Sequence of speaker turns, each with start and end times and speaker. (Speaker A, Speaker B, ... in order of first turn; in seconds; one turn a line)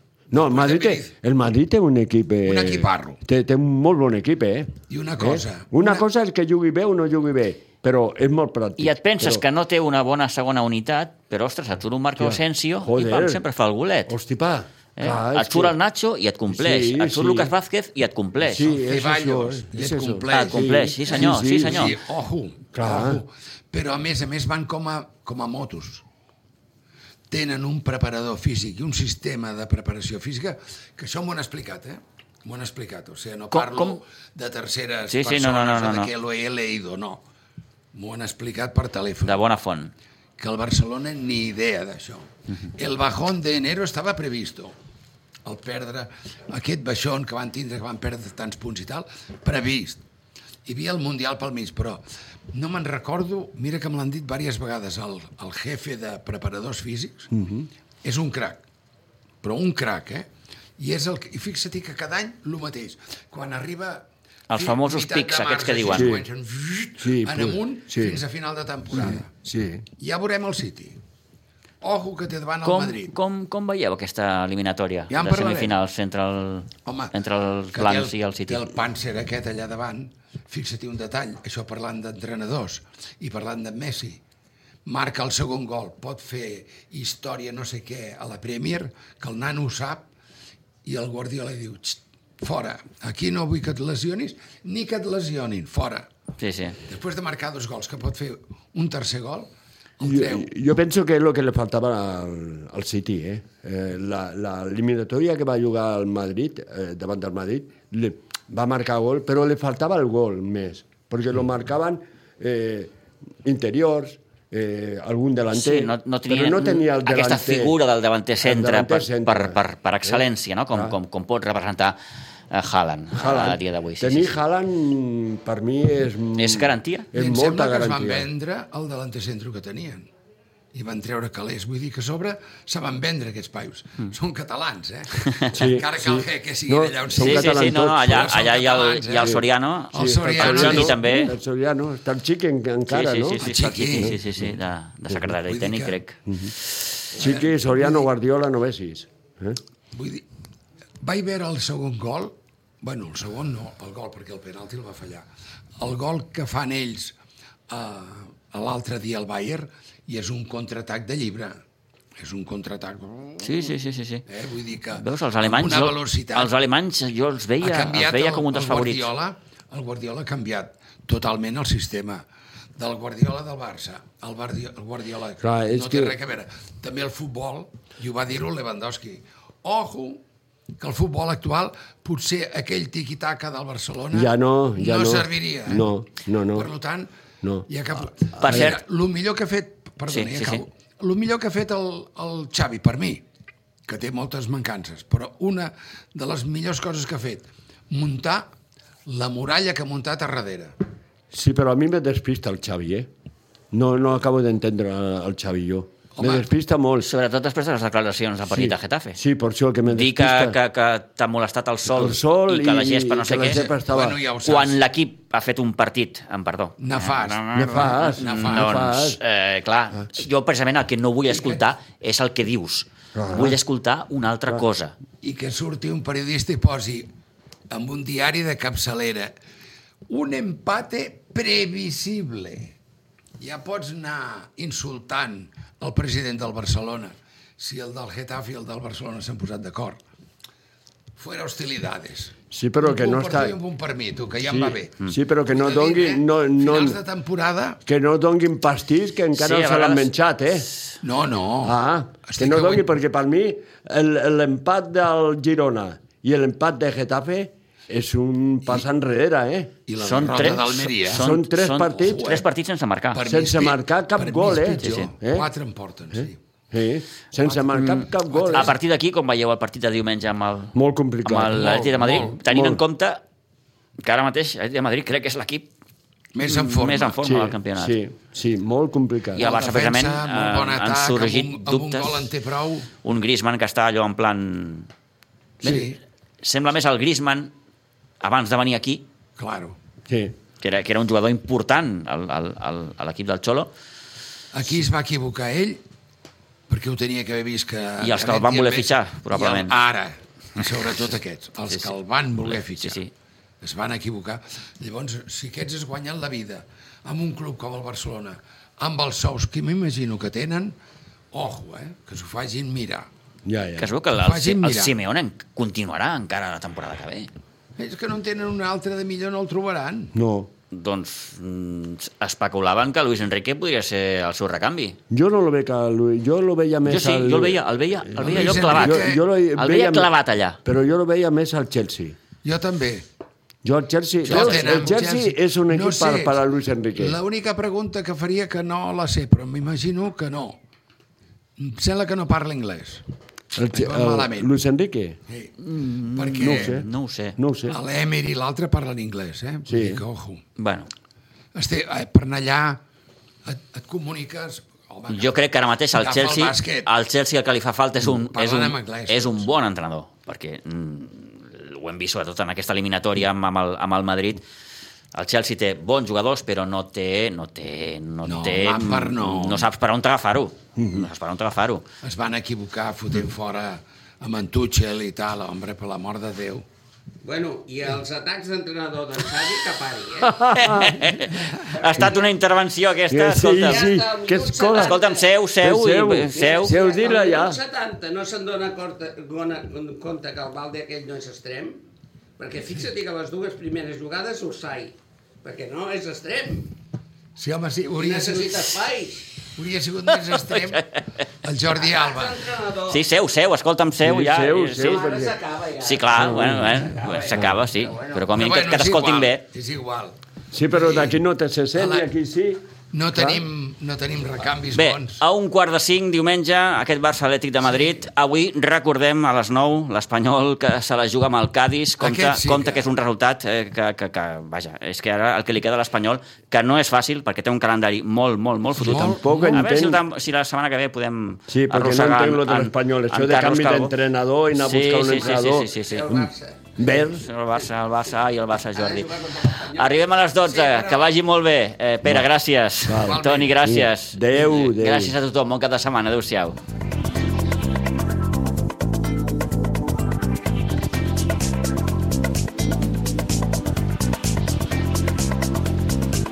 Speaker A: 0.3-9.4
Speaker B: 0.3-1.1
Speaker B: 2.4-3.2
Speaker B: 4.9-6.0
Speaker C: 8.8-14.1
Speaker A: 12.2-13.4
Speaker A: 14.1-15.7
Speaker C: 14.9-18.7
Speaker A: 16.5-17.5
Speaker A: 18.4-21.9
Speaker B: 18.8-26.0
Speaker C: 20.3-22.0
Speaker A: 22.7-23.2
Speaker B: 27.3-37.2
Speaker C: 33.5-34.0
Speaker C: 35.1-36.1
Speaker B: 37.9-39.4
Speaker C: 39.2-39.9
Speaker B: 40.4-44.7
Speaker B: 45.4-50.0
Speaker B: 50.6-57.3
Speaker A: 57.3-57.7
Speaker B: 58.0-58.6
Speaker B: 59.4-60.3
Speaker B: 60.8-69.3
Speaker C: 64.5-66.1
Speaker A: 65.9-66.2
Speaker A: 67.0-68.2
Speaker A: 68.9-69.8
Speaker B: 70.0-71.0
Speaker B: 71.8-73.1
Speaker C: 72.6-78.6
Speaker B: 75.1-75.7
Speaker B: 76.8-77.1
Speaker B: 77.7-84.2
Speaker B: 84.8-90.1
Speaker B: 90.8-96.1
Speaker C: 96.4-96.8
Speaker B: 96.8-100.5
Speaker A: 100.0-112.9
Speaker A: 113.4-117.8
Speaker C: 115.5-122.0
Speaker A: 118.4-120.9
Speaker C: 122.5-124.3
Speaker A: 123.1-128.3
Speaker C: 126.4-127.1
Speaker B: 127.1-130.1
Speaker B: 130.7-141.0
Speaker A: 135.5-138.3
Speaker C: 137.1-141.3
Speaker A: 139.2-144.4
Speaker C: 142.9-146.8
Speaker B: 143.4-144.2
Speaker B: 145.3-146.0
Speaker A: 146.3-146.5
Speaker B: 147.1-148.1
Speaker A: 147.1-149.6
Speaker B: 149.9-150.2
Speaker B: 151.0-155.2
Speaker B: 155.8-157.1
Speaker B: 157.7-161.6
Speaker B: 162.2-163.7
Speaker C: 163.4-164.2
Speaker B: 164.3-166.5
Speaker C: 164.9-169.1
Speaker B: 167.6-172.2
Speaker B: 172.8-180.2
Speaker A: 175.4-176.2
Speaker B: 180.8-185.9
Speaker A: 184.1-186.7
Speaker B: 186.5-187.1
Speaker A: 187.4-187.7
Speaker B: 187.7-193.2
Speaker A: 188.4-188.7
Speaker C: 188.4-188.8
Speaker C: 190.1-190.6
Speaker B: 193.9-198.5
Speaker B: 199.1-200.7
Speaker A: 201.3-203.1
Speaker A: 203.7-207.1
Speaker B: 206.1-206.5
Speaker C: 207.0-209.2
Speaker A: 208.5-210.6
Speaker C: 209.9-213.7
Speaker A: 211.9-214.2
Speaker B: 213.5-214.8
Speaker C: 214.4-224.9
Speaker B: 216.8-218.8
Speaker A: 217.5-219.2
Speaker B: 221.3-221.6
Speaker A: 223.1-223.6
Speaker B: 225.2-227.1
Speaker B: 227.7-229.3
Speaker B: 230.1-232.7
Speaker B: 233.4-240.0
Speaker B: 241.2-247.8
Speaker A: 242.5-243.6
Speaker A: 244.4-247.0
Speaker A: 247.8-250.7
Speaker C: 249.3-250.1
Speaker B: 251.0-252.8
Speaker A: 251.6-259.7
Speaker B: 259.9-261.3
Speaker C: 260.0-263.2
Speaker A: 261.1-262.4
Speaker B: 261.9-262.4
Speaker B: 263.1-266.4
Speaker A: 263.2-265.5
Speaker C: 264.8-265.1
Speaker A: 266.1-268.7
Speaker C: 267.7-273.2
Speaker B: 268.2-268.7
Speaker A: 270.7-272.8
Speaker C: 274.0-275.7
Speaker B: 276.3-277.1
Speaker C: 276.4-278.0
Speaker A: 277.2-279.4
Speaker C: 279.3-282.3
Speaker B: 279.4-282.9
Speaker C: 283.0-284.9
Speaker B: 285.6-286.0
Speaker C: 285.6-287.5
Speaker C: 288.2-289.0
Speaker B: 289.4-289.8
Speaker A: 290.1-290.3
Speaker C: 290.6-293.7
Speaker B: 294.5-295.8
Speaker B: 296.7-303.0
Speaker C: 298.0-299.7
Speaker C: 301.7-303.1
Speaker B: 303.6-310.7
Speaker B: 311.3-313.1
Speaker A: 313.4-313.9
Speaker C: 313.8-317.3
Speaker B: 314.2-314.9
Speaker B: 317.8-320.1
Speaker A: 320.1-320.5
Speaker C: 320.7-325.0
Speaker A: 325.1-330.1
Speaker C: 326.9-330.6
Speaker B: 328.2-329.2
Speaker A: 330.6-332.2
Speaker B: 332.4-333.1
Speaker A: 333.6-337.2
Speaker C: 334.2-334.9
Speaker B: 334.2-336.4
Speaker B: 336.9-340.6
Speaker B: 341.6-343.0
Speaker A: 343.5-345.2
Speaker B: 343.7-344.5
Speaker B: 345.3-345.5
Speaker C: 345.6-347.4
Speaker B: 346.1-346.8
Speaker A: 346.4-346.9
Speaker A: 347.4-347.8
Speaker B: 347.7-350.4
Speaker A: 349.7-350.0
Speaker C: 350.6-350.9
Speaker B: 351.5-352.8
Speaker B: 353.4-355.4
Speaker C: 355.1-364.4
Speaker B: 355.9-356.9
Speaker B: 358.0-359.4
Speaker C: 365.1-371.9
Speaker B: 368.2-369.7
Speaker A: 370.8-371.0
Speaker B: 372.0-376.6
Speaker D: 377.2-380.9
Speaker A: 380.2-381.1
Speaker C: 380.5-383.9
Speaker D: 381.5-382.2
Speaker A: 383.1-385.0
Speaker D: 383.5-385.3
Speaker C: 384.7-386.7
Speaker A: 385.6-387.6
Speaker D: 386.3-391.8
Speaker D: 392.4-396.8
Speaker B: 397.4-398.8
Speaker D: 398.0-399.2
Speaker B: 399.6-402.4
Speaker C: 400.2-401.0
Speaker D: 401.7-403.0
Speaker C: 402.9-405.1
Speaker A: 404.0-405.4
Speaker D: 404.8-408.4
Speaker C: 405.8-409.4
Speaker A: 406.1-407.5
Speaker B: 408.3-410.2
Speaker A: 410.5-412.6
Speaker B: 410.7-411.2
Speaker B: 411.7-412.1
Speaker B: 412.9-415.2
Speaker A: 413.1-413.4
Speaker C: 414.7-433.9
Speaker B: 422.0-422.9
Speaker B: 428.8-429.6
Speaker A: 428.8-430.0
Speaker A: 431.5-437.2
Speaker C: 434.5-436.1
Speaker D: 435.1-436.6
Speaker C: 436.8-439.1
Speaker D: 438.7-441.1
Speaker C: 439.7-446.6
Speaker A: 442.8-445.1
Speaker B: 442.9-443.6